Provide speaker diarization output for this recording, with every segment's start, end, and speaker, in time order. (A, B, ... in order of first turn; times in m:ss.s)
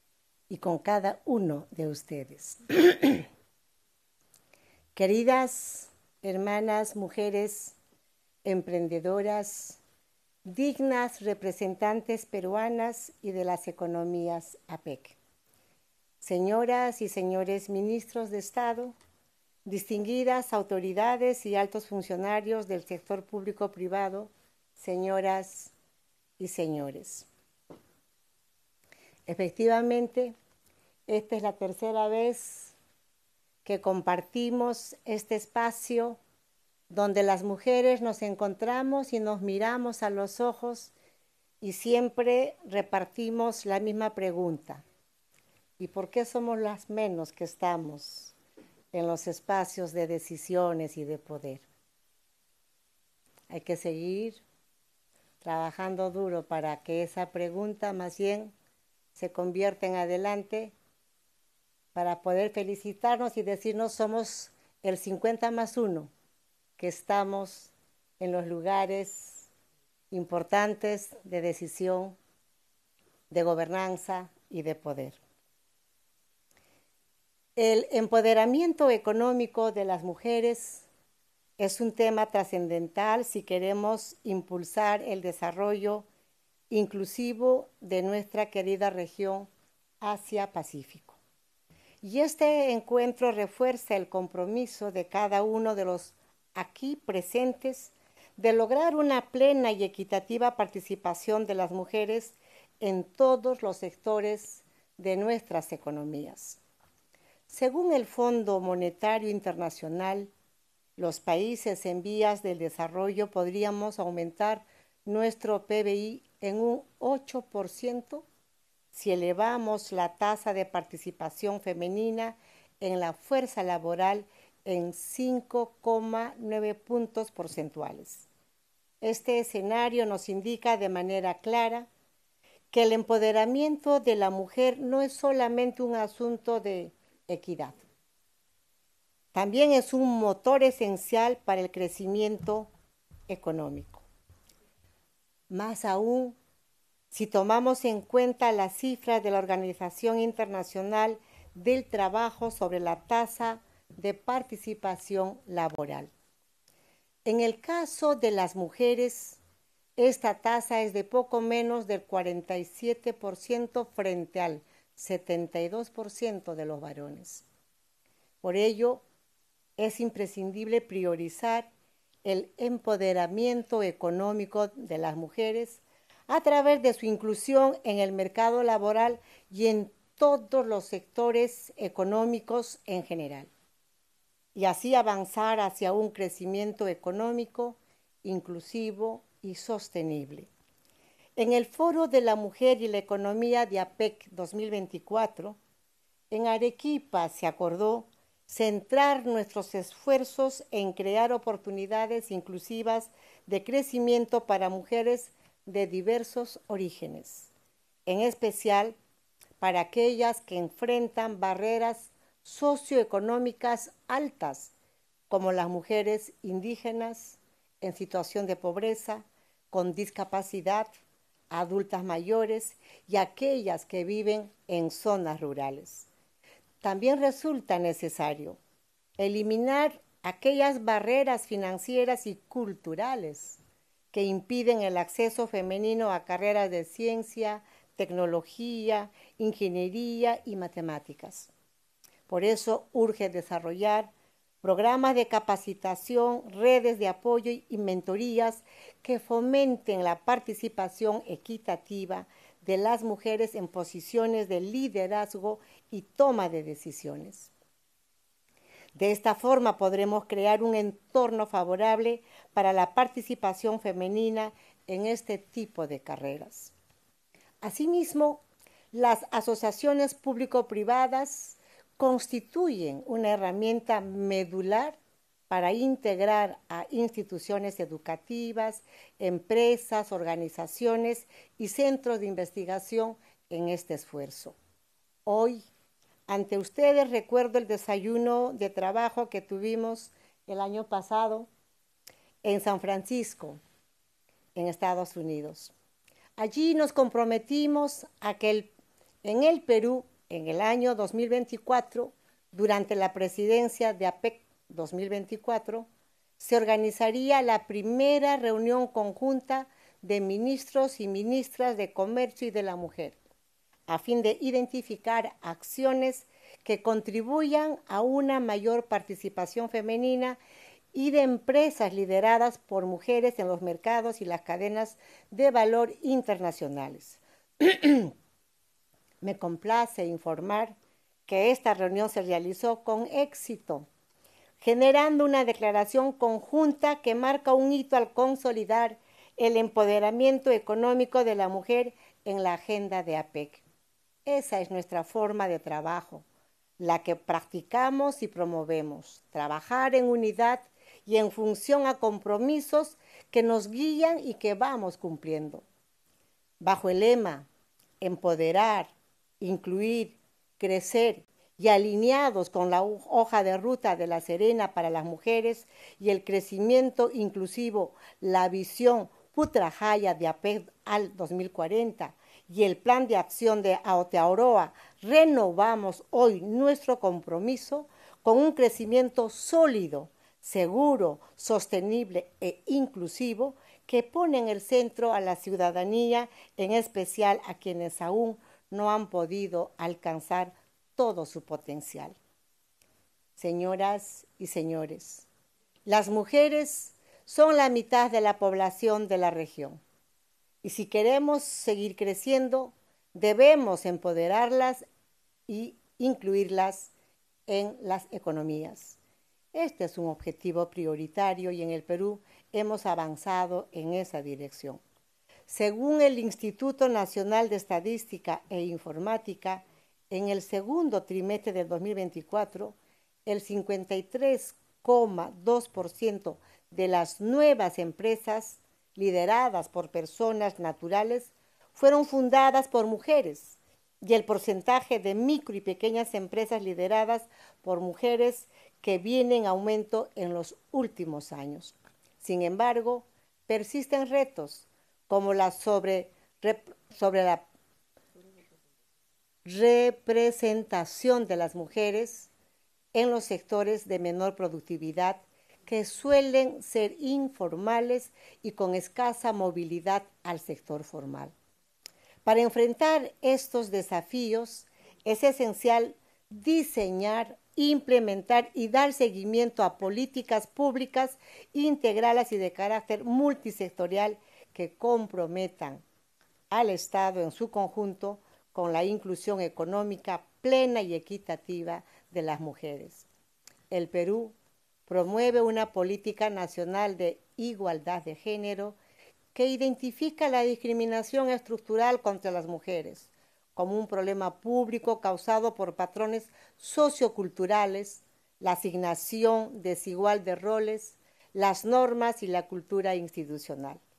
0:00.5-0:03.2 A
0:04.9-0:07.8 A
0:08.4-0:09.8 A
0:10.4-0:15.2 A
0:16.2-0:18.9 A
0:19.6-0:25.7 A
0:26.4-0:27.3 A
0:29.3-0:30.3 A
0:31.1-0:32.7 A
0:33.6-0:36.2 A
0:36.9-0:40.9 A
0:41.6-0:44.8 A
0:45.8-0:48.3 A
0:48.9-0:51.6 A
0:53.5-0:54.4 A
0:55.4-0:58.5 A
0:59.1-1:00.7 A
1:01.9-1:06.1 A
1:06.8-1:09.5 A
1:10.1-1:12.2 A
1:13.3-1:15.2 A
1:17.6-1:20.9 A
1:21.6-1:26.0 A
1:26.7-1:29.5 A
1:30.0-1:31.2 A
1:32.0-1:46.6 A
1:47.5-1:50.3 A
1:51.0-1:58.2 A
1:58.9-2:08.2 A
2:09.0-2:11.9 A
2:12.7-2:17.8 A
2:19.3-2:22.7 A
2:23.3-2:24.0 A
2:25.5-2:26.4 A
2:27.1-2:36.1 A
2:37.2-2:39.4 A
2:40.0-2:47.4 A
2:48.4-2:49.0 A
2:49.8-2:51.7 A
2:52.2-3:03.5 A
3:04.5-3:10.5 A
3:11.4-3:15.6 A
3:16.3-3:27.5 A
3:28.0-3:29.0 A
3:29.6-3:34.7 A
3:35.3-3:40.9 A
3:41.5-3:46.1 A
3:46.8-3:48.6 A
3:49.2-3:53.6 A
3:54.1-4:01.5 A
4:02.3-4:04.1 A
4:04.6-4:17.5 A
4:19.0-4:26.7 A
4:27.6-4:35.0 A
4:35.5-4:44.5 A
4:45.2-4:45.6 A
4:46.3-4:51.5 A
4:52.4-4:53.6 A
4:54.5-4:55.7 A
4:56.4-4:58.7 A
4:59.2-5:05.9 A
5:06.4-5:13.2 A
5:13.9-5:20.4 A
5:20.9-5:28.1 A
5:29.2-5:30.8 A
5:31.3-5:33.8 A
5:34.6-5:43.6 A
5:44.2-5:46.2 A
5:46.8-5:55.6 A
5:56.6-5:57.5 A
5:58.0-6:32.2 A
6:33.4-6:35.3 A
6:35.8-6:39.8 A
6:40.6-6:44.8 A
6:45.5-6:46.9 A
6:47.5-6:49.0 A
6:49.5-6:54.8 A
6:55.5-7:02.7 A
7:03.2-7:27.4 A
7:29.4-7:32.3 A
7:32.9-7:41.3 A
7:42.2-7:55.8 A
7:56.5-8:03.0 A
8:03.7-8:04.3 A
8:04.9-8:08.8 A
8:09.3-8:23.8 A